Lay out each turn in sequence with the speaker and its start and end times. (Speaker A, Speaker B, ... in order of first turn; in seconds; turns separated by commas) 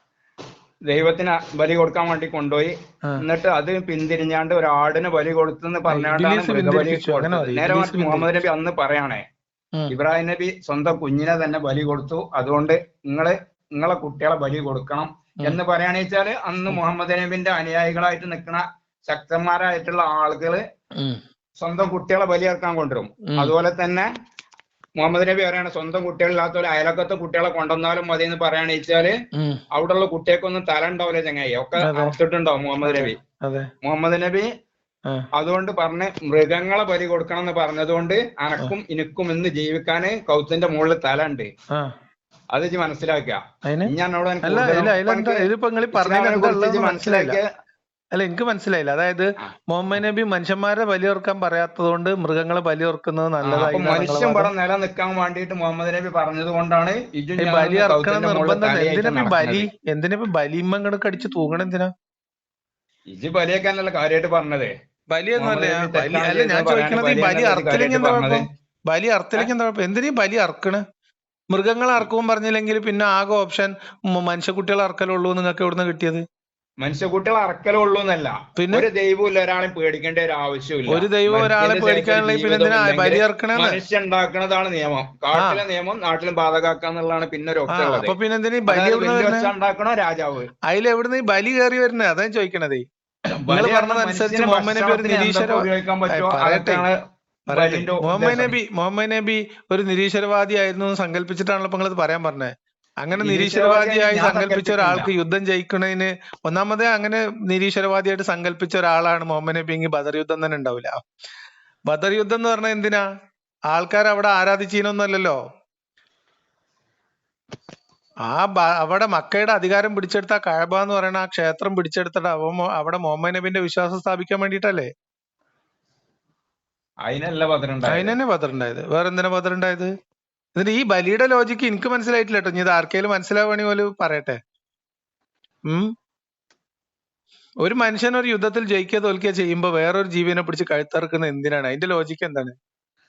Speaker A: 0.9-9.2, Speaker B: 5.9-8.3, Speaker A: 9.9-20.6, Speaker A: 21.6-24.1, Speaker B: 23.3-23.5, Speaker A: 25.0-29.1, Speaker B: 29.4-29.6, Speaker A: 29.7-33.2, Speaker B: 31.8-32.2, Speaker B: 32.8-33.7, Speaker A: 33.8-34.5, Speaker A: 35.4-41.5, Speaker A: 42.5-47.5, Speaker B: 43.6-47.4, Speaker B: 48.1-54.5, Speaker A: 53.4-59.7, Speaker B: 57.4-61.9, Speaker A: 63.1-64.7, Speaker B: 65.1-70.8, Speaker A: 65.4-68.4, Speaker B: 71.5-76.2, Speaker A: 76.8-88.1, Speaker B: 78.6-78.9, Speaker B: 80.9-83.8, Speaker B: 85.3-85.6, Speaker B: 87.7-89.5, Speaker A: 88.7-90.5, Speaker B: 90.7-92.9, Speaker A: 93.4-97.0, Speaker B: 93.5-96.9, Speaker A: 97.5-98.5, Speaker B: 97.5-102.5, Speaker B: 103.0-111.0, Speaker A: 103.2-105.1, Speaker B: 111.9-113.0, Speaker B: 113.7-115.4, Speaker B: 118.3-124.9, Speaker A: 127.0-128.2, Speaker B: 127.9-129.9, Speaker B: 130.6-134.4, Speaker B: 137.6-142.6